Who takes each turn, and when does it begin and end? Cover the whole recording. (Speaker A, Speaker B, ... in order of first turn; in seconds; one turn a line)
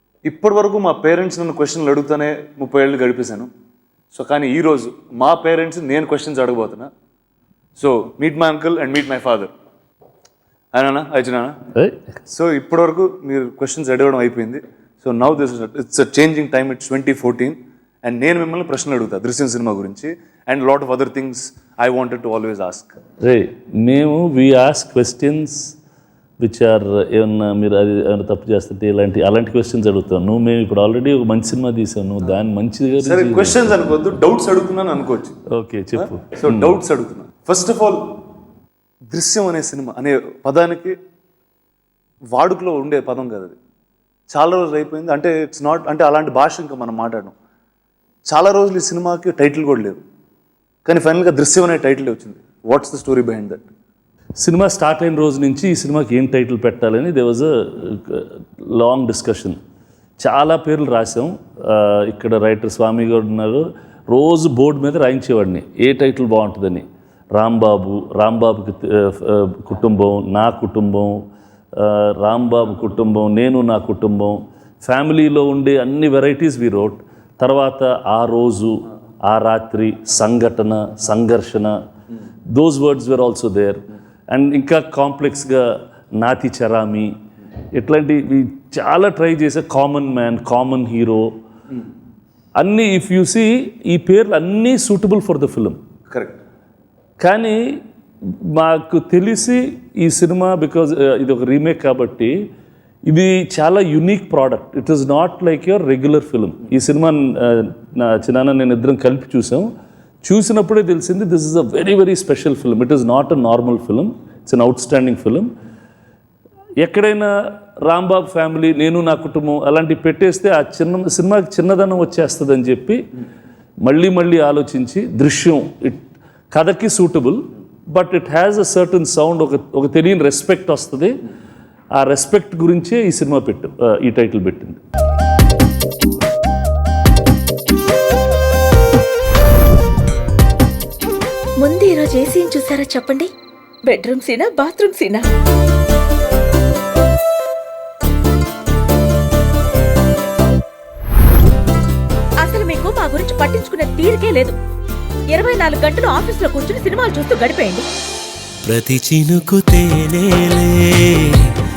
Speaker A: 0.2-3.5
Speaker A: 4.1-6.9
Speaker A: 7.8-9.5
Speaker A: 10.7-11.6
Speaker B: 11.8-12.0
Speaker A: 12.3-23.0
Speaker B: 23.2-25.7
Speaker B: 26.4-33.8
Speaker A: 33.0-35.4
Speaker B: 35.5-36.8
Speaker A: 36.0-38.0
Speaker A: 39.1-41.0
Speaker A: 42.3-43.6
Speaker A: 44.3-47.3
Speaker A: 48.3-50.0
Speaker A: 50.9-53.6
Speaker B: 54.4-59.6
Speaker B: 60.2-66.8
Speaker B: 67.3-71.2
Speaker B: 71.8-81.8
Speaker B: 82.5-87.1
Speaker B: 87.7-91.3
Speaker B: 92.6-95.8
Speaker A: 96.1-96.4
Speaker B: 97.2-102.4
Speaker B: 103.1-109.7
Speaker B: 110.2-115.5
Speaker B: 116.8-117.3
Speaker B: 117.8-123.0
Speaker B: 123.8-131.1
Speaker B: 132.0-134.8
Speaker C: 141.6-143.3
Speaker C: 143.8-145.3
Speaker C: 152.4-154.6
Speaker C: 155.3-157.8
Speaker D: 158.7-161.4